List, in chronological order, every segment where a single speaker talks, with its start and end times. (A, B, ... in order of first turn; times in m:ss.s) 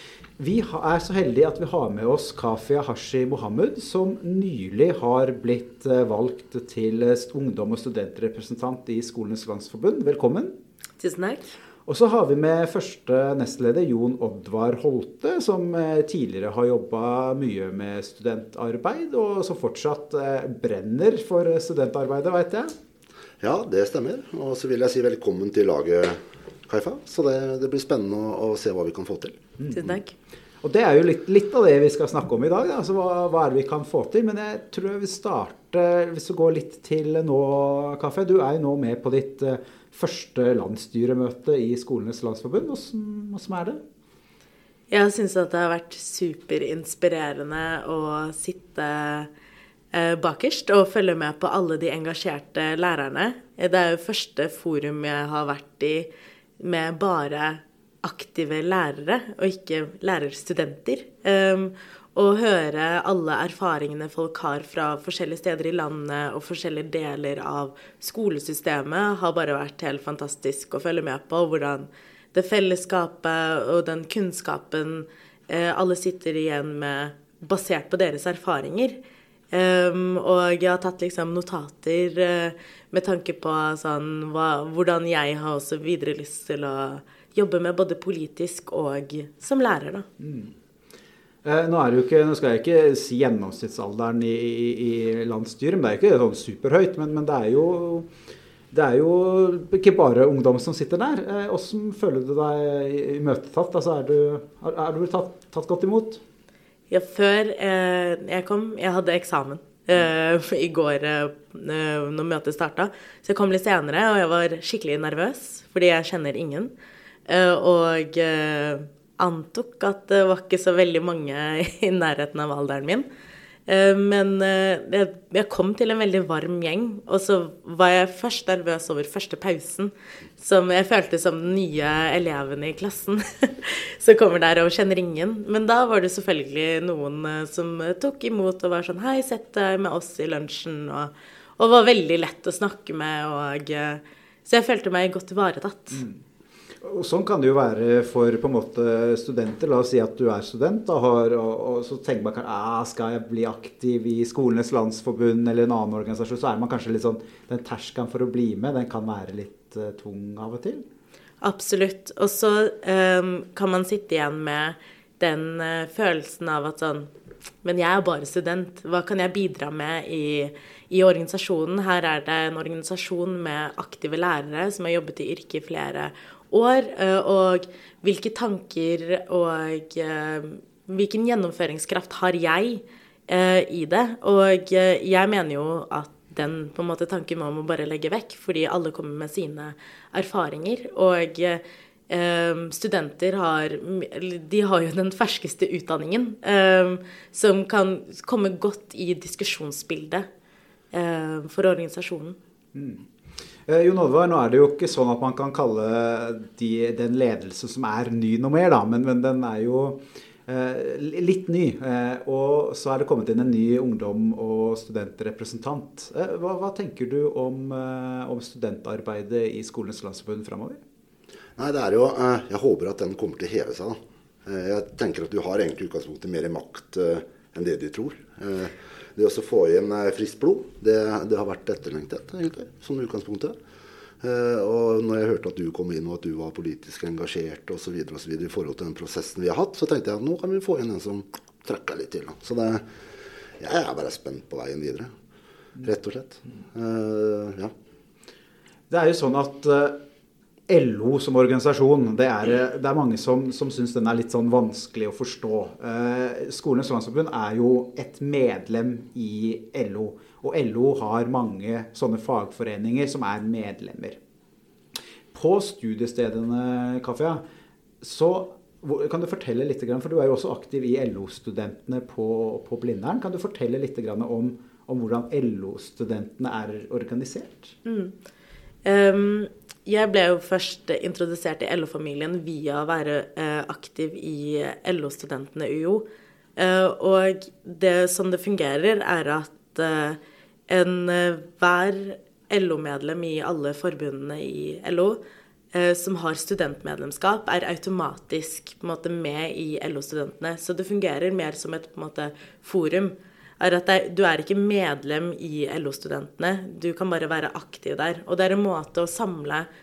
0:00.4-0:10.6 A
0:11.0-0:11.5 B
0:11.9-0:22.7 A
0:23.4-0:29.4 C
0:29.6-0:29.9 A
0:29.7-0:30.1 B
0:30.6-0:43.8 A
0:44.9-0:49.3 B
0:49.9-1:19.0 B
1:19.5-1:30.1 B
1:30.2-1:30.5 A
1:31.4-1:38.1 A
1:38.7-1:46.2 A
1:46.9-1:56.7 B
1:57.3-2:03.0 B
2:03.7-2:26.0 B
2:25.9-2:26.2 A
2:26.8-2:40.8 A
2:41.4-2:47.1 B
2:47.6-3:20.3 B
3:20.9-3:22.4 B
3:22.7-3:23.1 A
3:23.6-3:40.8 A
3:41.6-3:53.6 C
3:54.2-4:02.8 C
4:03.6-4:05.1 C
4:05.8-4:07.7 C
4:08.9-4:10.0 A
4:10.7-4:24.2 A
4:25.3-4:27.4 A
4:28.0-4:37.7 A
4:37.8-4:38.1 B
4:38.8-4:46.0 B
4:46.6-4:55.2 B
4:55.7-5:09.7 B